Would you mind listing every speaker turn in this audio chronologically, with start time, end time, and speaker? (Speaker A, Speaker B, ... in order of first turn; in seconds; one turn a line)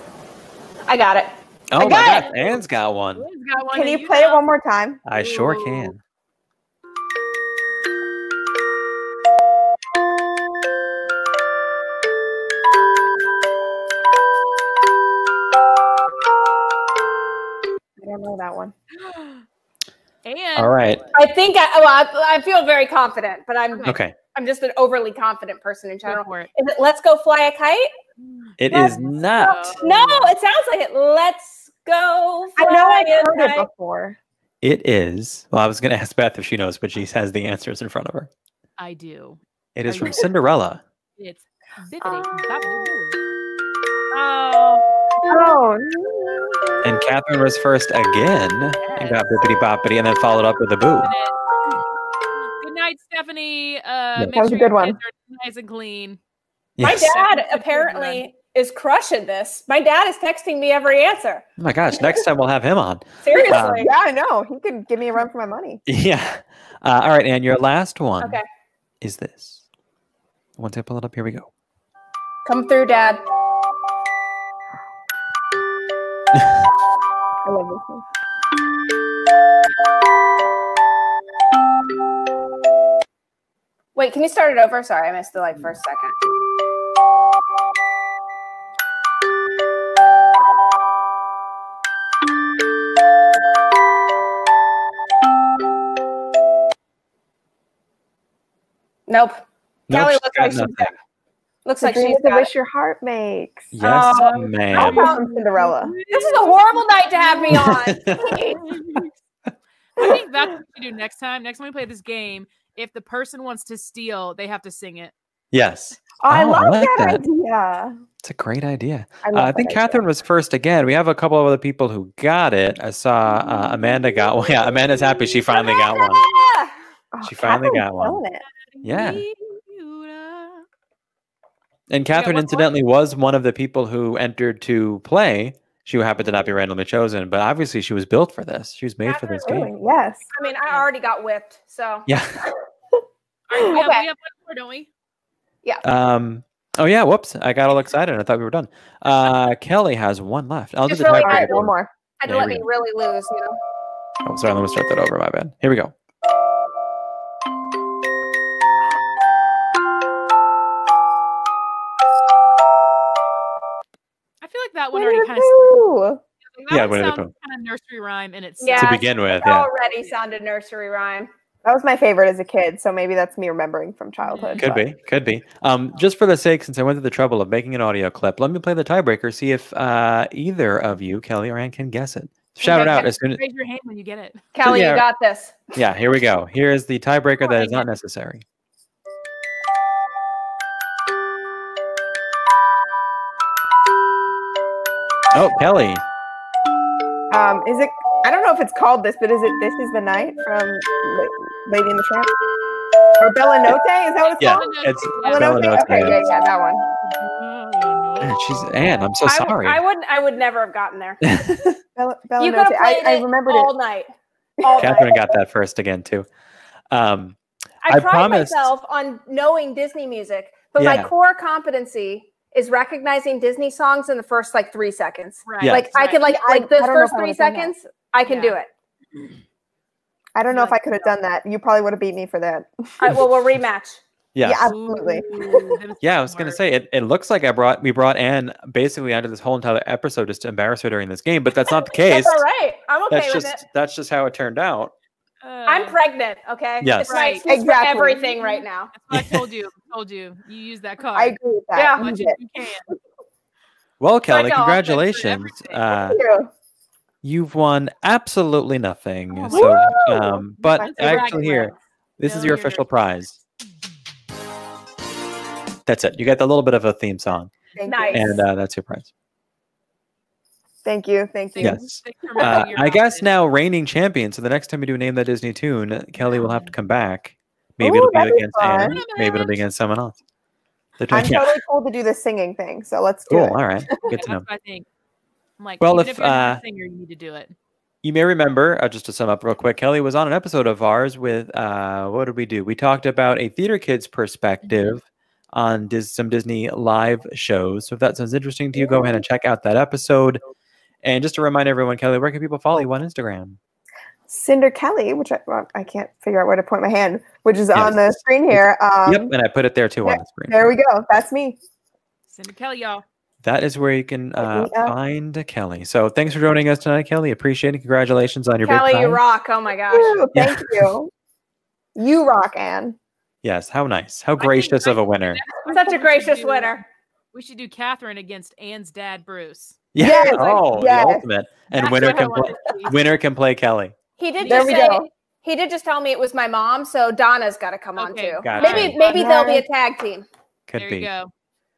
Speaker A: 0.9-2.3
Speaker B: 1.7-3.2
Speaker C: 3.1-4.4
Speaker D: 3.7-5.0
Speaker B: 5.0-6.0
Speaker C: 5.1-5.9
Speaker D: 18.0-18.7
Speaker C: 18.9-19.4
Speaker C: 20.2-20.9
Speaker B: 20.6-21.1
Speaker A: 21.1-27.9
Speaker C: 23.7-24.0
Speaker B: 23.9-24.1
Speaker C: 26.0-26.5
Speaker C: 28.2-30.3
Speaker B: 28.6-29.8
Speaker A: 29.8-33.7
Speaker D: 32.6-34.2
Speaker B: 34.6-38.3
Speaker C: 38.8-40.3
Speaker B: 39.8-40.8
Speaker C: 41.2-43.2
Speaker C: 44.1-44.8
Speaker D: 45.3-46.8
Speaker B: 46.8-51.1
Speaker C: 48.8-49.2
Speaker C: 51.0-51.4
Speaker C: 52.6-56.2
Speaker D: 54.3-55.0
Speaker B: 56.8-57.1
Speaker A: 56.8-61.4
Speaker C: 56.9-58.2
Speaker B: 61.6-63.9
Speaker A: 63.2-63.9
Speaker D: 63.3-65.8
Speaker B: 65.8-68.4
Speaker B: 69.0-69.6
Speaker B: 70.6-71.5
Speaker A: 72.4-73.2
Speaker D: 77.4-78.0
Speaker A: 83.9-86.2
Speaker A: 99.1-100.9
Speaker B: 99.9-100.9
Speaker A: 101.6-102.5
Speaker D: 101.8-103.7
Speaker B: 103.7-105.1
Speaker A: 103.8-105.2
Speaker C: 104.1-107.7
Speaker D: 104.7-105.9
Speaker A: 106.1-108.8
Speaker B: 107.5-108.4
Speaker C: 108.7-109.1
Speaker C: 110.0-115.1
Speaker B: 115.5-117.2
Speaker D: 116.2-117.9
Speaker B: 118.2-126.2
Speaker D: 119.2-120.0
Speaker A: 125.5-126.7
Speaker D: 127.1-128.4
Speaker B: 127.2-128.2
Speaker C: 128.6-130.6
Speaker B: 128.8-129.2
Speaker B: 131.9-139.7
Speaker C: 132.1-132.7
Speaker A: 139.0-139.6
Speaker D: 139.4-140.2
Speaker A: 140.3-142.1
Speaker C: 140.4-140.9
Speaker B: 142.1-142.4
Speaker C: 143.5-144.9
Speaker A: 143.6-144.1
Speaker B: 145.8-151.7
Speaker A: 150.9-151.6
Speaker D: 151.2-151.9
Speaker A: 152.2-153.6
Speaker B: 152.2-152.7
Speaker B: 154.2-155.9
Speaker C: 164.4-165.9
Speaker D: 164.9-166.2
Speaker C: 166.6-169.1
Speaker B: 166.7-167.3
Speaker A: 168.6-171.3
Speaker B: 168.8-169.7
Speaker D: 171.6-174.8
Speaker C: 174.2-174.7
Speaker B: 174.6-183.4
Speaker C: 182.6-184.5
Speaker A: 184.5-185.6
Speaker B: 184.6-185.0
Speaker B: 185.7-188.4
Speaker C: 187.4-187.9
Speaker B: 195.3-196.0
Speaker D: 197.3-202.3
Speaker D: 203.2-206.8
Speaker C: 204.2-206.2
Speaker B: 204.4-206.2
Speaker C: 207.0-208.3
Speaker B: 208.2-209.8
Speaker A: 209.2-211.2
Speaker B: 211.2-211.8
Speaker D: 211.9-213.7
Speaker A: 212.4-214.1
Speaker D: 214.6-215.0
Speaker A: 214.6-215.3
Speaker B: 214.8-216.2
Speaker B: 216.9-218.7
Speaker A: 217.8-228.7
Speaker B: 220.8-221.1
Speaker C: 225.4-226.2
Speaker B: 225.6-225.9
Speaker D: 226.2-227.7
Speaker C: 228.2-228.6
Speaker D: 230.3-233.2
Speaker C: 230.5-231.1
Speaker A: 233.0-234.0
Speaker B: 234.3-234.7
Speaker D: 234.4-235.8
Speaker C: 234.7-236.6
Speaker B: 236.0-242.4
Speaker A: 241.8-243.6
Speaker B: 243.1-244.9
Speaker C: 245.4-246.0
Speaker A: 245.7-248.9
Speaker B: 246.8-247.1
Speaker C: 247.1-247.4
Speaker D: 247.4-248.4
Speaker C: 248.4-251.4
Speaker B: 249.1-249.4
Speaker D: 251.1-252.4
Speaker A: 251.7-252.1
Speaker C: 251.9-252.9
Speaker B: 254.0-256.2
Speaker C: 254.3-255.9
Speaker D: 256.1-256.5
Speaker B: 257.2-263.4
Speaker D: 259.3-261.2
Speaker C: 259.5-260.0
Speaker C: 260.6-262.9
Speaker B: 265.9-267.5
Speaker D: 267.8-268.4
Speaker A: 267.8-268.4
Speaker B: 268.1-269.1
Speaker D: 270.8-271.8
Speaker C: 271.5-273.2
Speaker B: 271.6-280.2
Speaker D: 272.4-272.7
Speaker C: 276.2-276.7
Speaker D: 277.8-279.0
Speaker C: 278.8-279.6
Speaker B: 281.0-281.6
Speaker D: 281.1-284.1
Speaker B: 283.3-284.4
Speaker C: 284.1-284.9
Speaker C: 285.6-287.5
Speaker B: 285.8-286.6
Speaker B: 288.0-300.4
Speaker C: 294.6-295.0
Speaker D: 298.8-299.1
Speaker B: 301.0-303.6
Speaker D: 304.3-309.3
Speaker B: 307.7-310.7
Speaker D: 310.0-311.6
Speaker C: 312.3-313.0
Speaker B: 313.4-319.2
Speaker D: 314.4-314.9
Speaker A: 318.6-320.2
Speaker D: 319.9-321.1
Speaker B: 320.3-320.9
Speaker D: 321.9-322.9
Speaker B: 323.4-325.4
Speaker C: 324.4-326.8
Speaker A: 325.7-326.8
Speaker C: 327.3-329.8
Speaker B: 329.9-333.9
Speaker D: 330.0-331.2
Speaker A: 330.1-330.5
Speaker C: 331.7-332.9
Speaker A: 334.2-340.2
Speaker C: 334.4-335.0
Speaker D: 334.4-335.1
Speaker C: 338.0-339.3
Speaker B: 338.4-339.0
Speaker D: 339.1-339.6
Speaker B: 340.7-341.1
Speaker C: 340.8-341.3